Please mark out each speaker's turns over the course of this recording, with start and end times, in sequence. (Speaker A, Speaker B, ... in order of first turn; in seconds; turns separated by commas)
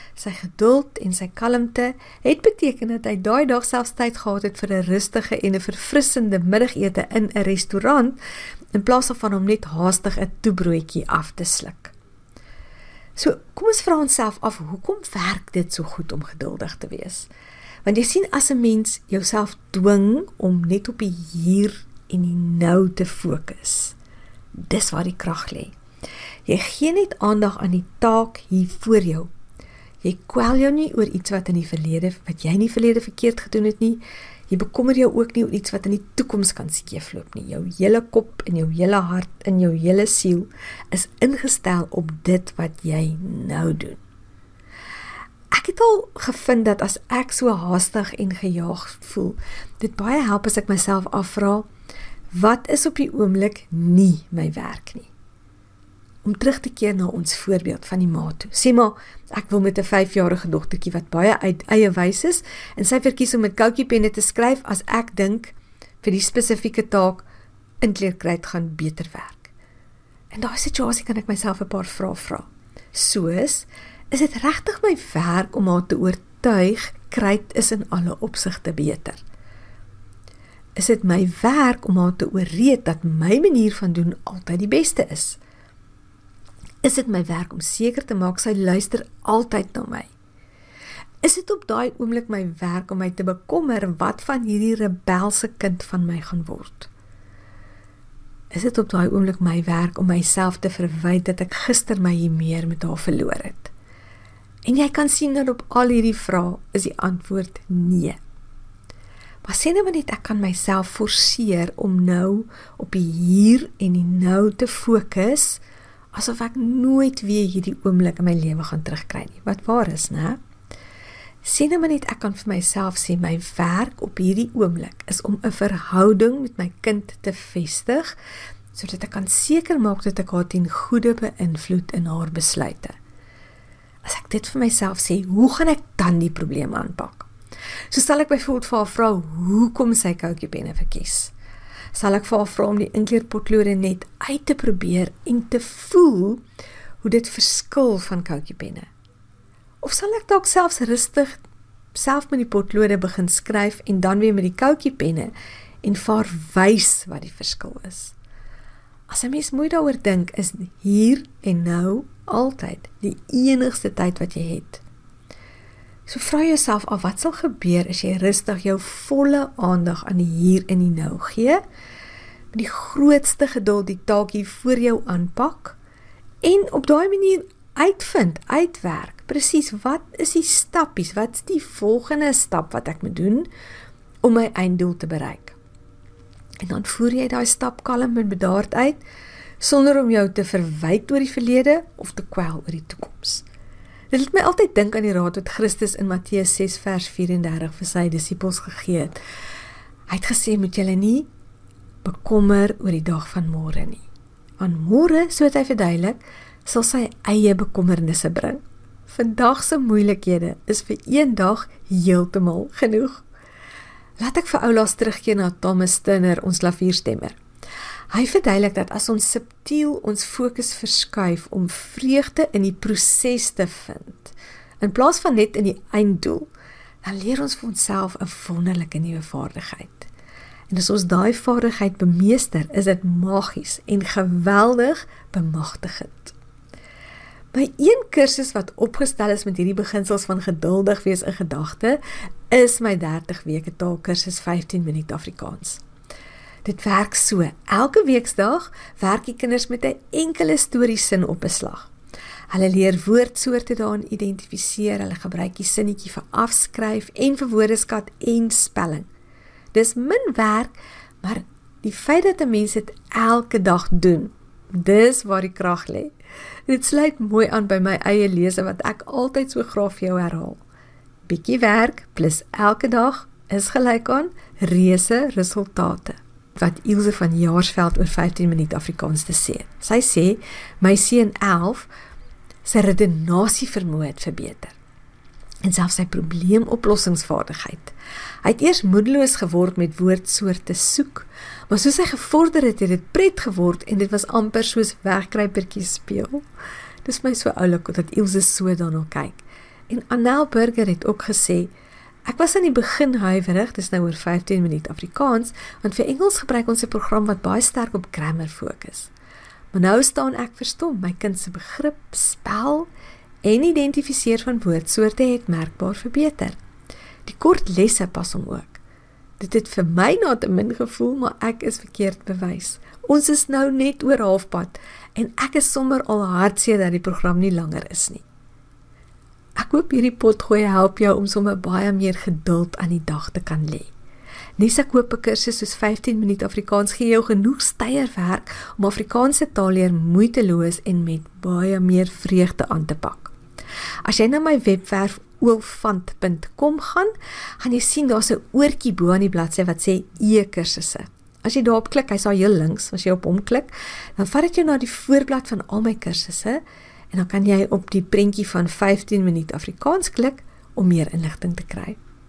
Speaker A: 0.2-8.2, Speaker A: 8.7-11.9, Speaker A: 13.2-17.3, Speaker A: 17.8-23.9, Speaker A: 24.6-25.7, Speaker A: 26.4-29.3, Speaker A: 30.0-44.0, Speaker A: 45.5-51.7, Speaker A: 52.3-55.1, Speaker A: 56.2-67.2, Speaker A: 67.8-69.5, Speaker A: 70.3-79.2, Speaker A: 80.8-85.4, Speaker A: 86.8-90.1, Speaker A: 91.2-96.9, Speaker A: 98.5-103.7, Speaker A: 104.7-108.2, Speaker A: 109.4-115.6, Speaker A: 116.1-120.4, Speaker A: 121.4-128.1, Speaker A: 128.7-132.9, Speaker A: 134.0-137.3, Speaker A: 137.9-141.3, Speaker A: 141.9-146.4, Speaker A: 147.0-148.9, Speaker A: 149.8-151.4, Speaker A: 151.9-155.3, Speaker A: 155.8-158.1, Speaker A: 159.1-164.8, Speaker A: 166.1-171.6, Speaker A: 172.5-175.8, Speaker A: 176.4-183.5, Speaker A: 184.2-185.6, Speaker A: 186.6-189.0, Speaker A: 189.6-193.4, Speaker A: 194.1-199.2, Speaker A: 200.1-201.3, Speaker A: 202.0-204.0, Speaker A: 204.6-213.2, Speaker A: 214.2-217.4, Speaker A: 218.1-226.5, Speaker A: 227.0-230.1, Speaker A: 230.7-236.3, Speaker A: 237.5-245.8, Speaker A: 246.6-251.9, Speaker A: 252.5-259.1, Speaker A: 259.7-266.1, Speaker A: 266.7-270.6, Speaker A: 271.2-281.9, Speaker A: 282.6-284.7, Speaker A: 285.6-296.4, Speaker A: 297.0-301.7, Speaker A: 302.2-309.1, Speaker A: 309.7-312.9, Speaker A: 313.4-316.6, Speaker A: 317.2-318.8, Speaker A: 319.4-328.2, Speaker A: 329.6-333.9, Speaker A: 334.6-343.3, Speaker A: 344.0-362.0